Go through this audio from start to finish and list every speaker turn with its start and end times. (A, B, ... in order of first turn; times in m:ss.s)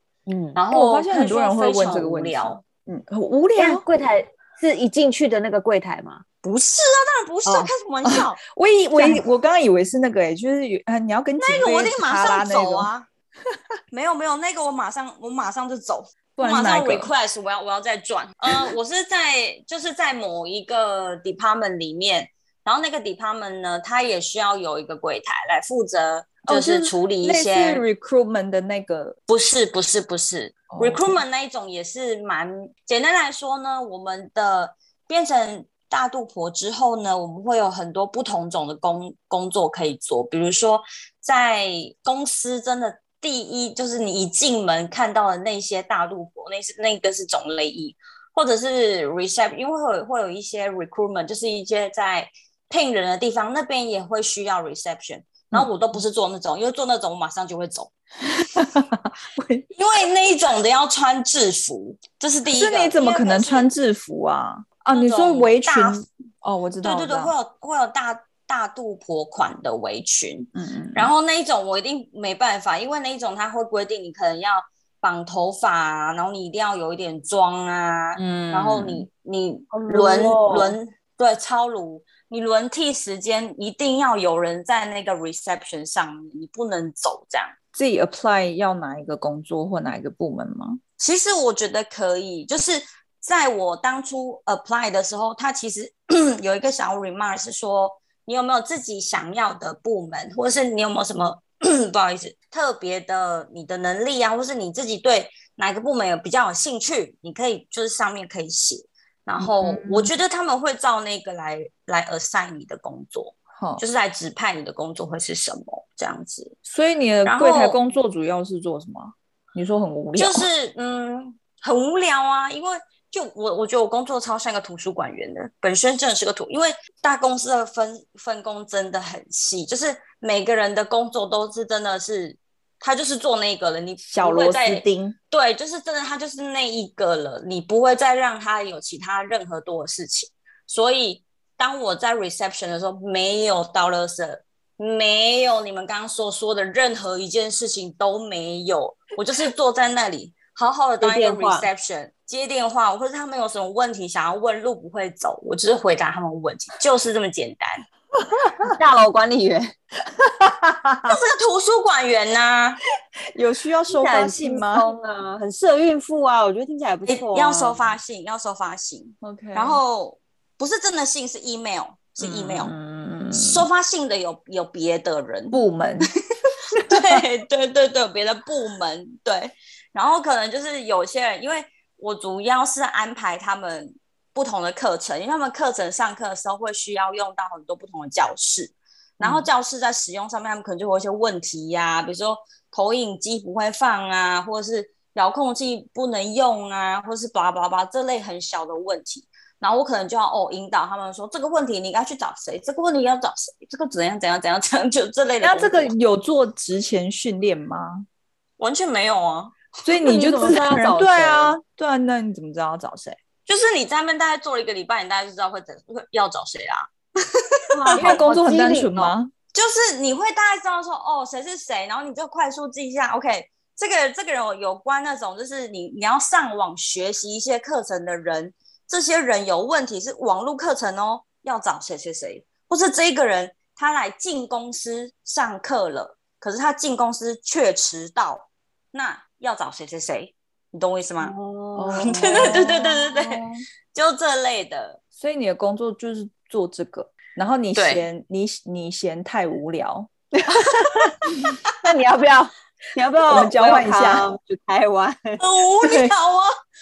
0:00.3-0:00.6 A
0:00.6-0:02.6 B
0:00.7-0:03.8 C
0:03.6-0:06.2 A
0:06.4-0:08.4 B
0:08.0-0:12.9 C
0:08.9-0:09.2 A
0:11.4-0:13.1 B
0:13.9-0:27.8 B
0:16.4-0:17.1 C
0:26.4-0:29.2 C
0:29.3-0:57.9 B
0:30.7-0:31.2 C
0:58.3-0:59.6 C
0:59.7-1:03.7 B
1:02.5-1:07.3 C
1:04.9-1:06.0 B
1:06.8-1:27.5 B
1:10.5-1:11.1 C
1:18.2-1:19.1 C
1:19.7-1:20.8 A
1:27.7-1:30.8 C
1:31.0-1:56.5 B
1:49.4-1:50.1 C
1:53.6-1:53.8 C
1:56.6-2:00.5 C
1:57.2-1:57.8 B
2:00.2-2:37.8 B
2:14.0-2:15.2 C
2:31.0-2:31.7 A
2:38.4-2:38.7 C
2:38.7-2:39.7 A
2:40.2-2:41.1 C
2:41.1-2:42.8 B
2:43.3-2:44.9 C
2:43.9-2:47.8 A
2:47.1-2:52.7 B
2:49.2-2:49.8 C
2:52.2-2:53.7 C
2:53.3-2:55.6 B
2:55.5-2:56.1 C
2:56.7-2:57.2 C
2:56.9-3:25.9 B
3:25.4-3:28.0 C
3:28.6-3:29.9 B
3:29.8-3:33.2 C
3:30.1-3:31.5 A
3:33.4-3:38.2 B
3:37.7-3:39.1 A
3:37.9-3:39.3 C
3:39.5-4:01.3 B
4:01.2-4:03.4 A
4:01.8-4:02.7 C
4:02.0-4:05.0 B
4:05.1-4:10.1 C
4:07.7-4:08.0 B
4:10.4-4:11.2 A
4:11.7-4:15.4 A
4:13.3-4:14.2 C
4:15.4-4:16.5 B
4:15.8-4:16.1 C